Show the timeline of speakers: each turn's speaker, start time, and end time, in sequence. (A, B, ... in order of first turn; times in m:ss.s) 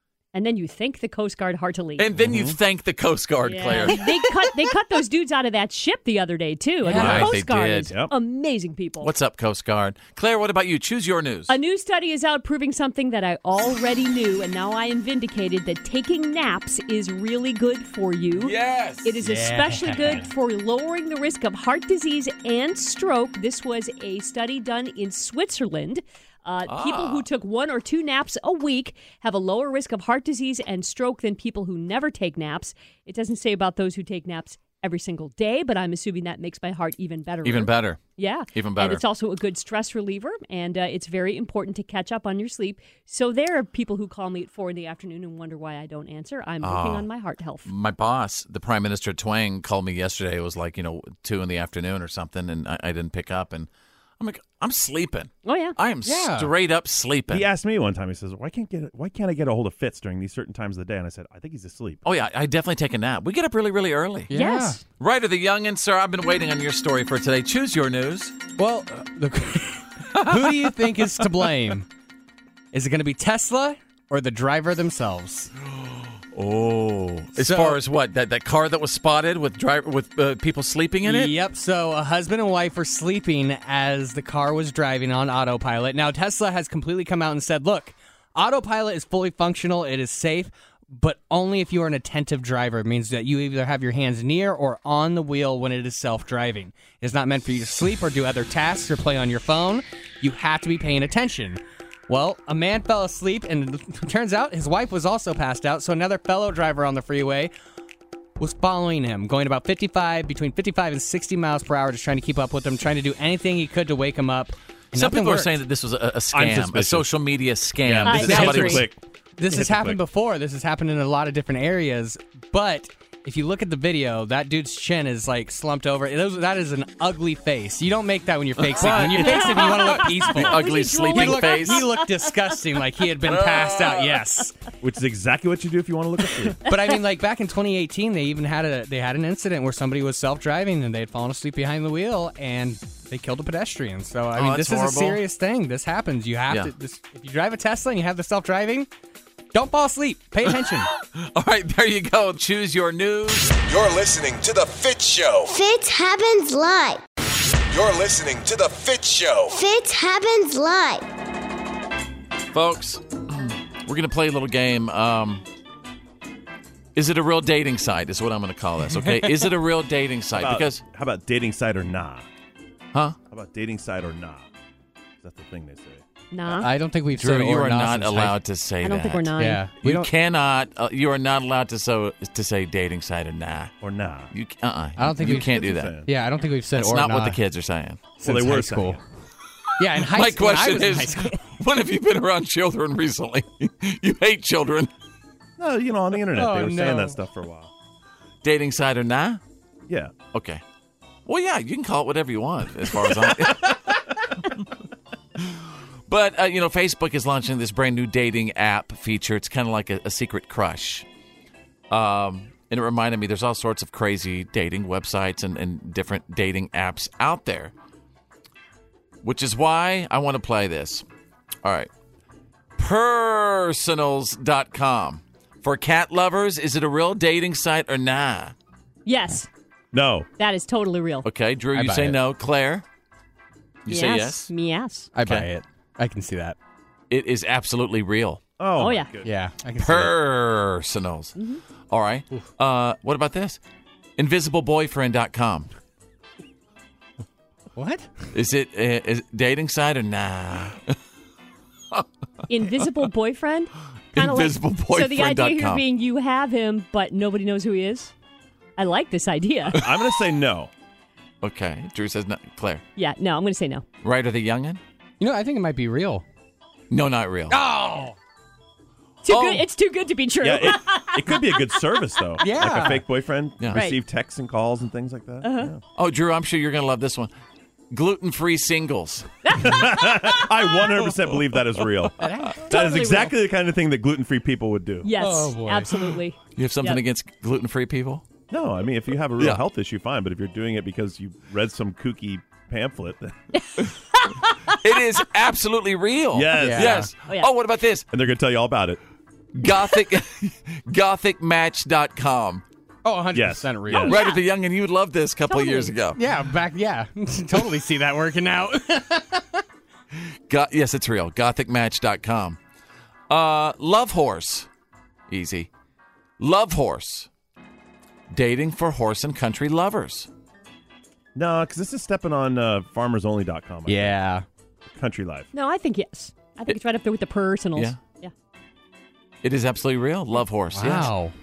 0:00.3-0:02.1 A
0:02.0-0:04.0 B
0:02.2-0:02.6 C
0:03.4-0:09.1 A
0:06.8-0:07.9 B
0:06.8-0:07.2 D
0:06.9-0:07.3 C
0:09.0-0:11.5 B
0:11.5-0:47.7 A
0:18.3-0:19.2 B
0:19.2-0:20.3 D
0:26.6-0:27.3 B
0:37.4-0:38.0 B
0:38.5-0:39.0 B
0:46.6-0:47.1 B
0:47.6-0:53.7 B
0:54.2-0:57.5 B
0:55.4-0:55.7 A
0:56.0-0:56.5 D
0:57.3-1:02.0 C
1:02.0-1:04.3 B
1:04.3-1:04.8 D
1:04.3-1:04.8 A
1:05.0-1:08.4 B
1:08.6-1:11.8 D
1:10.1-1:10.8 B
1:12.7-1:15.5 D
1:15.7-1:21.3 B
1:17.4-1:17.8 D
1:21.0-1:47.5 D
1:48.4-1:55.5 D
1:54.9-1:58.9 B
1:56.3-1:57.1 C
1:57.8-1:59.0 C
1:58.0-1:58.8 A
1:58.3-1:58.8 D
1:59.4-2:14.5 D
1:59.5-2:00.0 C
2:08.6-2:11.9 B
2:09.2-2:12.3 A
2:13.2-2:14.2 B
2:14.8-2:16.6 C
2:16.6-2:28.9 D
2:24.3-2:25.2 B
2:29.5-2:30.9 D
2:31.0-2:33.6 B
2:33.6-2:35.5 E
2:35.5-2:37.0 F
2:37.7-2:39.6 E
2:39.5-2:41.0 F
2:42.5-2:45.4 B
2:46.9-2:50.8 B
2:49.0-2:49.4 D
2:50.3-2:52.2 C
2:53.3-2:54.4 C
2:55.2-2:56.0 C
2:56.3-2:56.7 A
2:56.5-2:58.4 D
2:57.1-3:03.7 B
2:58.8-2:59.6 A
2:59.4-3:00.1 D
3:03.8-3:04.3 C
3:04.3-3:06.0 B
3:05.0-3:07.4 D
3:05.2-3:06.1 C
3:06.8-3:08.0 B
3:08.2-3:09.0 D
3:08.2-3:09.0 C
3:09.8-3:11.4 D
3:10.0-3:14.9 B
3:15.6-3:17.7 C
3:16.3-3:17.2 D
3:18.4-3:19.4 B
3:19.9-3:20.1 C
3:20.3-3:20.6 B
3:21.2-3:23.8 B
3:25.4-3:31.0 B
3:31.9-3:37.7 B
3:39.2-3:41.0 B
3:41.6-3:41.9 B
3:42.8-3:48.5 B
3:49.0-3:49.5 A
3:49.9-3:50.3 C
3:50.4-3:51.3 A
3:51.2-3:52.8 B
3:51.7-3:52.2 D
3:53.8-3:54.5 B
3:53.9-3:55.1 A
3:55.1-3:56.6 D
3:57.1-3:58.4 B
3:58.6-3:59.3 C
3:58.8-3:59.1 A
3:59.2-4:00.1 D
3:59.8-4:01.3 B
4:01.4-4:01.6 A
4:01.9-4:03.6 B
4:04.2-4:05.7 B
4:07.8-4:08.2 D
4:08.3-4:10.9 B
4:12.5-4:18.1 A
4:14.1-4:15.8 B
4:18.8-4:19.8 A
4:19.7-4:20.7 C
4:21.4-4:22.8 B
4:23.0-4:23.8 A
4:24.0-4:24.8 B
4:25.2-4:26.2 D
4:26.9-4:27.6 B
4:27.5-4:28.2 D
4:29.2-4:31.7 A
4:29.2-4:29.6 B
4:30.4-4:35.8 C
4:32.4-4:33.0 D
4:33.6-4:33.8 B
4:33.7-4:34.0 A
4:35.4-4:35.7 A
4:36.0-4:37.3 B
4:37.9-4:39.3 B
4:39.4-4:40.5 A
4:39.5-4:45.1 C
4:42.2-4:42.8 D
4:42.7-4:43.3 A
4:45.0-4:47.0 A
4:45.2-4:46.1 D
4:46.6-4:48.2 B
4:48.5-4:53.4 C
4:53.7-4:54.5 A
4:54.8-4:58.1 B
4:56.3-4:57.1 C
4:56.6-4:57.1 D
4:58.1-4:59.0 C
4:59.5-5:02.6 B
5:03.0-5:04.2 D
5:03.3-5:04.2 C
5:03.9-5:06.2 B
5:04.1-5:04.4 A
5:05.5-5:05.9 A
5:06.1-5:09.6 D
5:10.5-5:12.6 B
5:13.3-5:14.7 B
5:15.3-5:15.7 B
5:16.4-5:17.3 B
5:18.3-5:20.3 B
5:21.3-5:24.2 C
5:23.9-5:24.4 D
5:24.9-5:25.5 C
5:25.5-5:28.3 A
5:29.4-5:31.1 B
5:30.7-5:31.3 D